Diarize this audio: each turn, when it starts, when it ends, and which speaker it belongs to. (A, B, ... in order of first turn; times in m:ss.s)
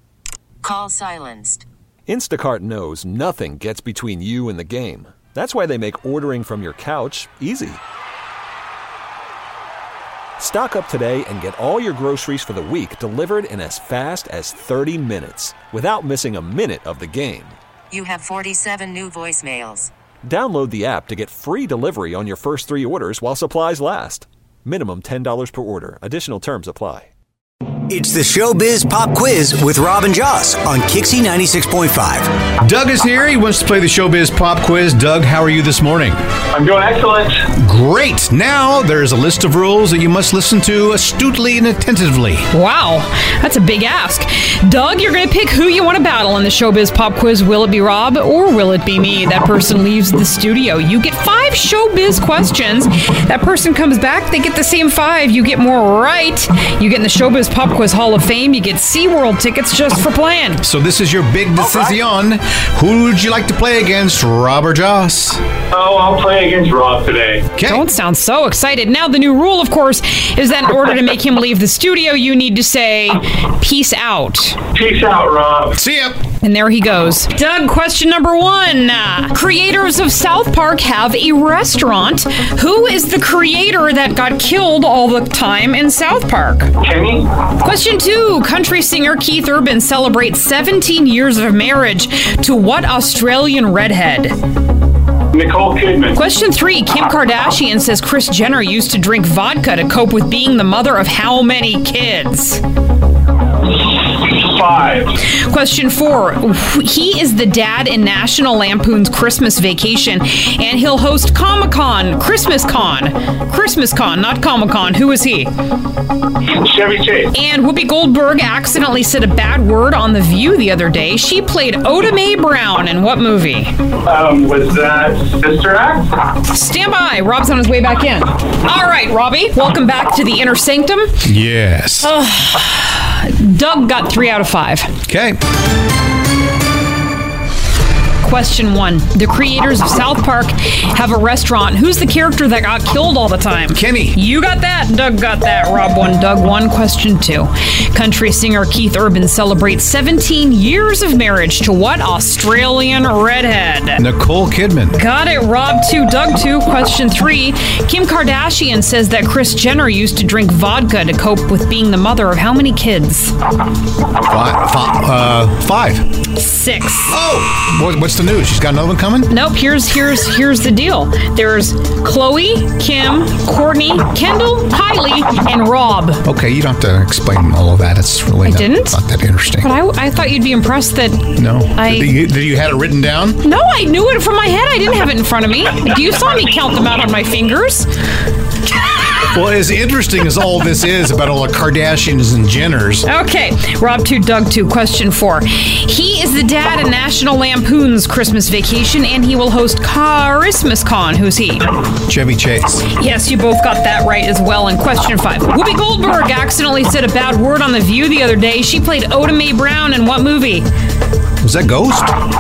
0:00.6-0:01.7 A
0:02.1-0:07.8 B
0:10.4-0:17.6 B
0:17.9-0:19.9 A
0:20.2-0:27.1 B
0:27.9-0:32.3 C
0:32.6-0:36.2 D
0:36.5-0:37.4 E
0:37.6-0:42.5 D
0:42.5-1:00.6 F
1:00.6-1:05.4 D
1:01.6-1:02.0 E
1:05.7-1:07.5 E
1:07.6-1:07.8 D
1:07.6-1:14.6 F
1:14.8-1:15.8 E
1:15.8-1:16.2 D
1:16.4-1:26.7 F
1:26.8-1:27.3 E
1:27.6-1:34.4 F
1:35.3-1:36.2 E
1:36.2-1:42.6 F
1:43.8-1:45.1 E
1:45.3-1:55.5 F
1:56.5-1:57.3 E
1:57.3-2:03.7 F
2:04.1-2:06.1 E
2:06.5-2:11.1 F
2:11.2-2:12.1 D
2:12.0-2:14.9 F
2:15.1-2:15.4 D
2:18.2-2:34.0 F
2:23.7-2:24.2 D
2:34.0-2:35.0 D
2:34.9-2:43.3 F
2:44.3-2:46.0 D
2:46.4-2:47.2 F
2:47.1-2:49.3 D
2:49.3-2:56.2 F
2:56.2-2:59.7 D
2:58.4-2:59.0 F
2:59.6-3:02.1 F
3:01.4-3:03.4 D
3:03.4-3:07.9 F
3:09.3-3:13.1 D
3:13.0-3:21.7 F
3:22.1-3:22.8 D
3:22.9-3:30.7 F
3:31.4-3:32.2 D